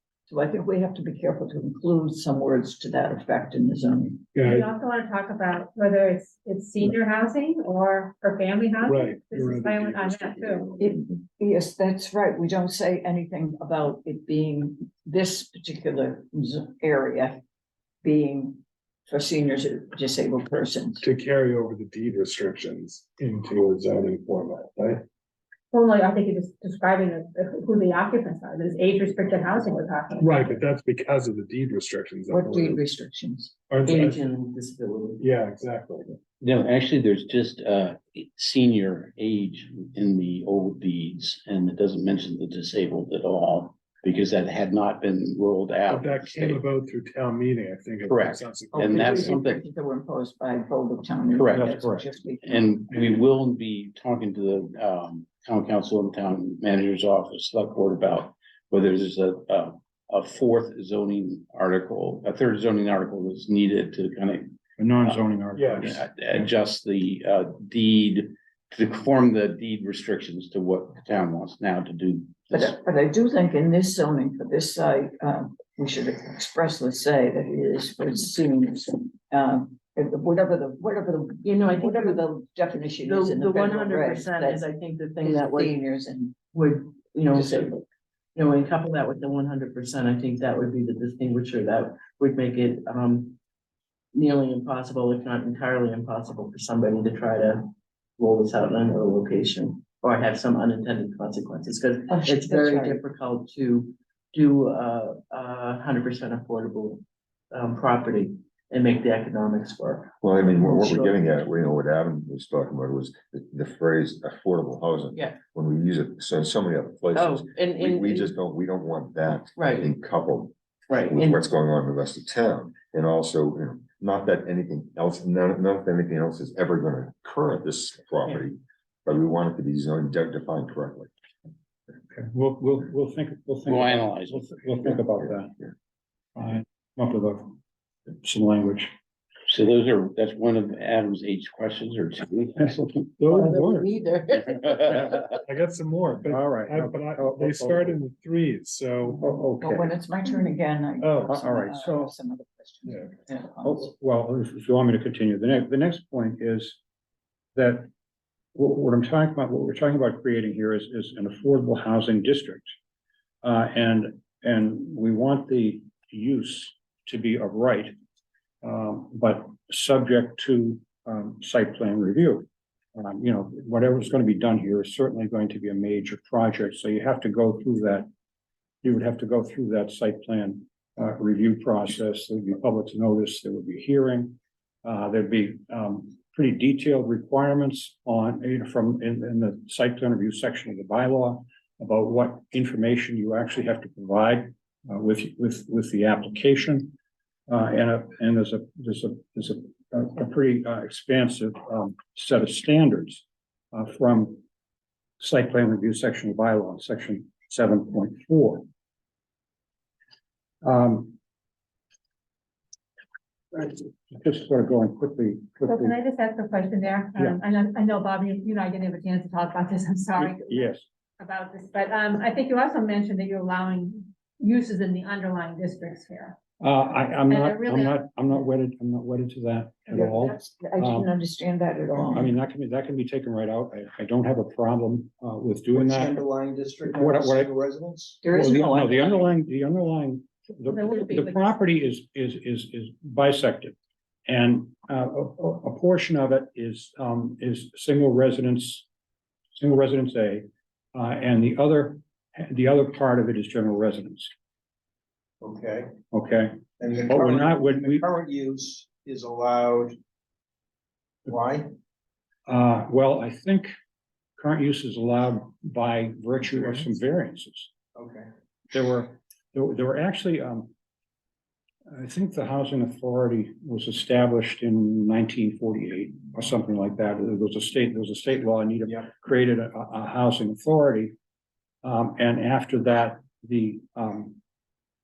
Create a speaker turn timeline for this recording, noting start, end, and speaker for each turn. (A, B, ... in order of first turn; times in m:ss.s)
0:00.3-0:04.3 A
0:04.3-0:04.7 B
0:04.4-0:10.7 C
0:08.8-0:10.7 B
0:10.8-0:17.4 A
0:18.0-0:21.0 A
0:21.0-0:25.0 B
0:25.7-0:30.6 C
0:30.2-0:32.8 B
0:32.3-0:33.5 A
0:33.7-0:34.2 B
0:33.9-0:35.2 D
0:35.2-0:36.1 B
0:37.0-0:37.7 E
0:38.2-0:46.6 E
0:45.9-0:49.4 B
0:48.7-0:52.9 A
0:51.5-0:52.1 F
0:52.7-1:04.4 E
1:04.8-1:06.1 F
1:05.6-1:06.0 B
1:06.2-1:12.2 E
1:12.5-1:24.6 A
1:21.4-1:22.2 D
1:23.0-1:25.7 D
1:25.2-1:26.4 A
1:26.5-1:27.7 D
1:27.3-1:27.8 A
1:28.4-1:33.4 D
1:34.1-1:51.4 D
1:42.1-1:43.0 A
1:50.2-2:00.6 G
1:55.1-1:55.4 D
1:57.2-1:58.4 D
1:59.6-1:59.9 D
2:00.9-2:01.4 D
2:01.1-2:11.1 G
2:12.1-2:15.7 F
2:13.7-2:14.3 E
2:16.4-2:17.6 F
2:18.2-2:18.9 F
2:19.5-2:22.8 E
2:22.7-2:23.9 F
2:23.3-2:25.3 D
2:25.4-2:29.2 B
2:26.2-2:28.0 F
2:29.1-2:33.9 A
2:29.2-2:29.9 F
2:31.0-2:32.1 F
2:32.9-2:33.1 B
2:33.6-2:36.8 F
2:37.6-2:37.9 F
2:38.6-2:42.7 F
2:43.4-2:47.9 F
2:48.6-2:58.1 F
2:58.8-3:17.0 F
3:17.5-3:24.4 F
3:25.2-3:28.6 F
3:30.6-3:31.2 F
3:33.5-3:36.0 F
3:35.7-3:40.7 C
3:40.2-3:40.8 F
3:41.2-3:46.4 C
3:46.6-3:51.1 F
3:47.3-3:48.0 C
3:49.9-3:52.3 A
3:52.1-3:56.2 F
3:55.7-3:58.2 H
3:56.8-3:57.5 F
3:58.2-4:03.8 F
3:58.2-3:59.3 A
4:00.7-4:01.6 C
4:04.3-4:08.9 F
4:09.6-4:14.3 F
4:15.4-4:15.9 H
4:16.1-4:18.1 F
4:16.8-4:19.9 H
4:21.3-4:21.7 H
4:22.5-4:23.7 F
4:24.4-4:27.7 F
4:28.0-4:28.2 H
4:28.7-4:30.7 F
4:31.9-4:41.1 F
4:41.8-4:44.4 F